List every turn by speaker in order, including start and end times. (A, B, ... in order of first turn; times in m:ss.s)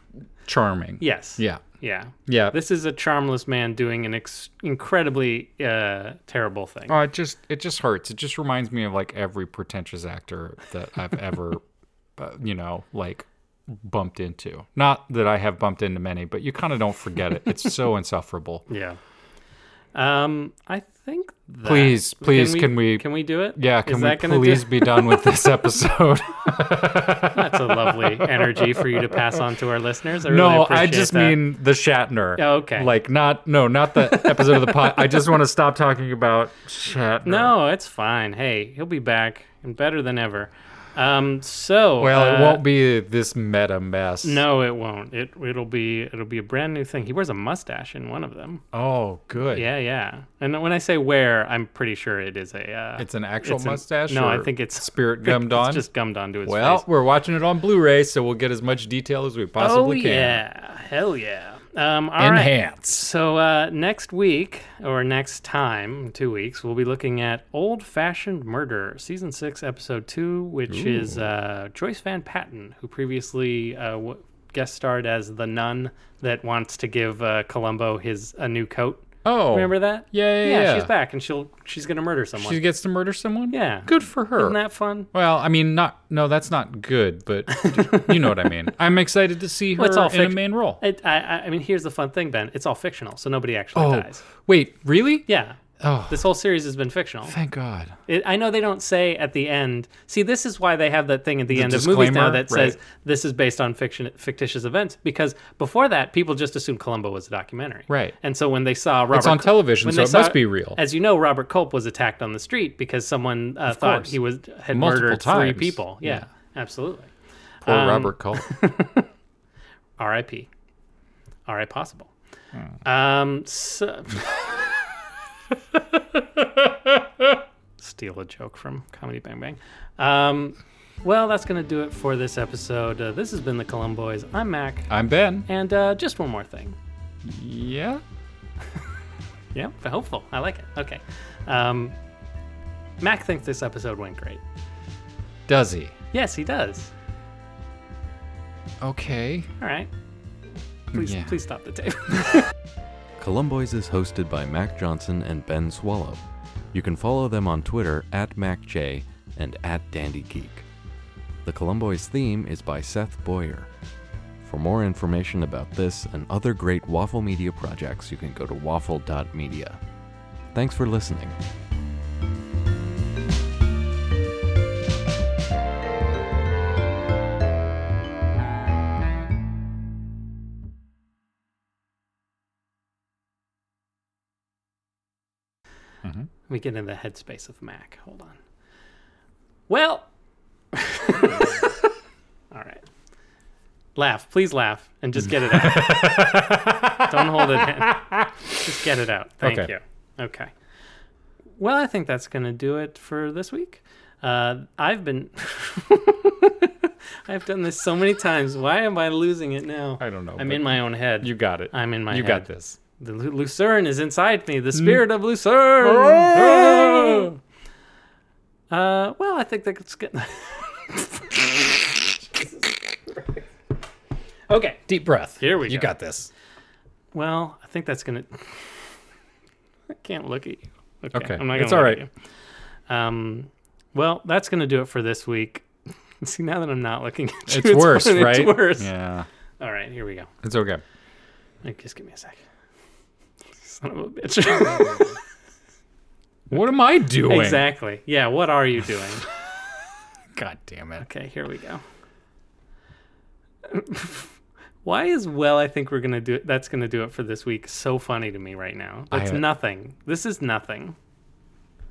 0:00.4-0:01.6 A
0:01.0-0:07.0 B
0:02.3-0:02.6 A
0:06.9-0:11.6 A
0:12.2-0:18.6 A
0:18.7-0:19.0 B
0:20.0-0:25.2 B
0:21.6-0:29.4 A
0:27.3-0:31.4 B
0:30.2-0:37.5 A
0:32.4-0:32.9 B
0:34.0-0:35.3 B
0:37.2-0:42.6 B
0:42.0-0:44.4 A
0:44.2-0:48.6 B
0:48.7-0:49.7 A
0:49.5-0:56.9 B
0:53.0-0:55.8 A
0:56.5-1:00.4 A
0:59.6-1:22.6 B
1:02.2-1:03.1 A
1:10.7-1:11.3 A
1:19.2-1:20.9 A
1:22.4-1:24.6 A
1:23.5-1:25.1 B
1:25.1-1:30.8 A
1:27.5-1:28.5 B
1:29.8-1:34.2 B
1:33.8-1:35.3 A
1:35.3-1:37.4 B
1:35.8-1:36.3 A
1:37.3-1:38.0 A
1:38.1-1:57.1 B
1:41.5-1:42.8 A
1:47.9-1:48.2 A
1:49.1-1:50.8 A
1:53.7-1:54.2 A
1:54.7-1:56.3 A
1:57.6-1:59.1 B
1:57.6-1:58.5 A
2:00.0-2:00.5 B
2:01.5-2:02.1 B
2:02.8-2:04.5 B
2:05.9-2:07.3 A
2:07.8-2:14.9 B
2:14.9-2:15.5 A
2:15.5-2:16.8 B
2:17.2-2:18.0 A
2:19.5-2:22.0 B
2:23.0-2:24.4 B
2:25.5-2:26.0 A
2:26.1-2:26.9 B
2:28.8-2:29.5 A
2:29.6-2:29.9 B
2:30.9-2:31.4 A
2:30.9-2:32.4 B
2:33.2-2:36.2 C
2:36.7-2:40.6 C
2:41.4-2:43.7 C
2:44.4-2:49.8 C
2:50.5-2:51.4 C
3:06.0-3:06.3 A
3:06.5-3:08.4 B
3:09.7-3:10.1 B
3:10.7-3:11.7 B
3:12.5-3:12.8 B
3:14.0-3:16.1 B
3:15.2-3:18.6 A
3:17.1-3:18.0 B
3:18.6-3:20.5 B
3:19.4-3:19.7 A
3:21.6-3:37.4 B
3:30.0-3:32.8 A
3:34.8-3:35.0 A
3:35.8-3:37.3 A
3:38.7-3:43.3 B
3:44.5-3:44.8 B
3:44.9-3:46.3 A
3:45.4-3:46.0 B
3:47.1-3:48.8 B
3:49.9-3:52.1 B
3:51.1-3:52.0 A
3:52.9-3:55.7 B
3:56.2-3:58.9 B
3:57.5-3:59.3 A
3:59.6-4:00.3 B
4:00.4-4:00.8 A
4:01.6-4:02.4 B
4:03.6-4:05.2 B
4:06.5-4:07.7 A
4:07.3-4:09.3 B
4:10.3-4:11.0 A
4:11.0-4:11.8 B
4:13.7-4:21.0 B
4:19.1-4:19.4 A